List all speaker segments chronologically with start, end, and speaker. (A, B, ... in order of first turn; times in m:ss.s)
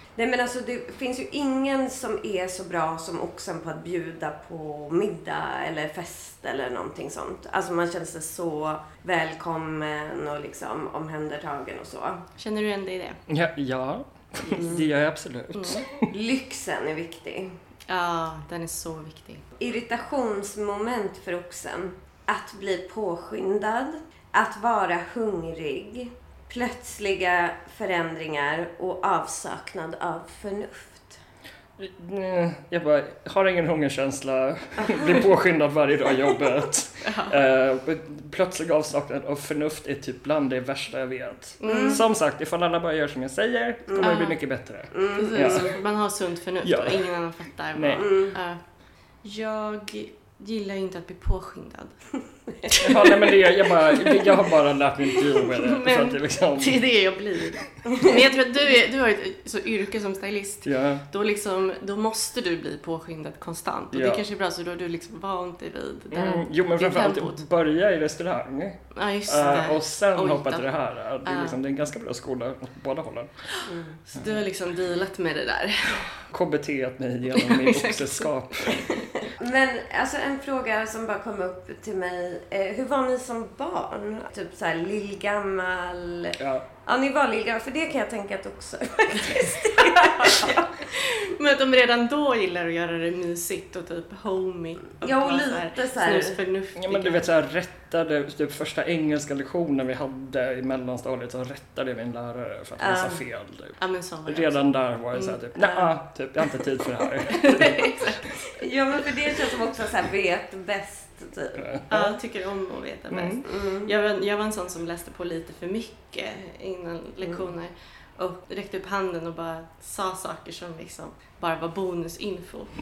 0:00.2-0:12.2 A
0:12.4-0:13.2 B
0:13.3-0:16.1 C
0:14.5-0:14.8 A
0:15.5-0:15.8 B
0:16.0-0:17.5 A
0:17.9-0:19.5 B
0:19.6-0:31.2 A
0:31.8-0:45.7 C
0:37.0-0:37.4 B
0:41.6-0:42.0 B
0:41.6-0:42.0 A
0:43.9-0:44.2 A
0:44.0-0:44.4 B
0:44.9-0:45.7 A
0:45.1-0:48.6 B
0:46.6-0:47.1 C
0:47.7-0:48.1 C
0:48.0-0:48.3 A
0:49.2-0:52.0 B
0:52.7-0:54.5 B
0:52.7-0:56.8 C
0:55.1-1:07.4 B
1:00.6-1:01.0 C
1:03.9-1:04.2 C
1:06.1-1:13.4 C
1:08.9-1:10.7 B
1:11.2-1:11.6 B
1:13.6-1:14.0 A
1:14.1-1:16.1 B
1:16.3-1:18.8 C
1:17.3-1:19.0 B
1:19.2-1:30.8 A
1:26.4-1:26.6 C
1:30.0-1:37.2 B
1:35.0-1:36.4 A
1:36.8-1:48.1 C
1:42.8-1:43.2 A
1:43.8-1:44.6 B
1:45.1-1:45.8 B
1:47.2-1:48.4 B
1:48.5-1:51.8 A
1:51.6-1:52.2 C
1:51.9-2:02.7 B
1:53.1-1:53.4 C
1:53.4-1:53.9 A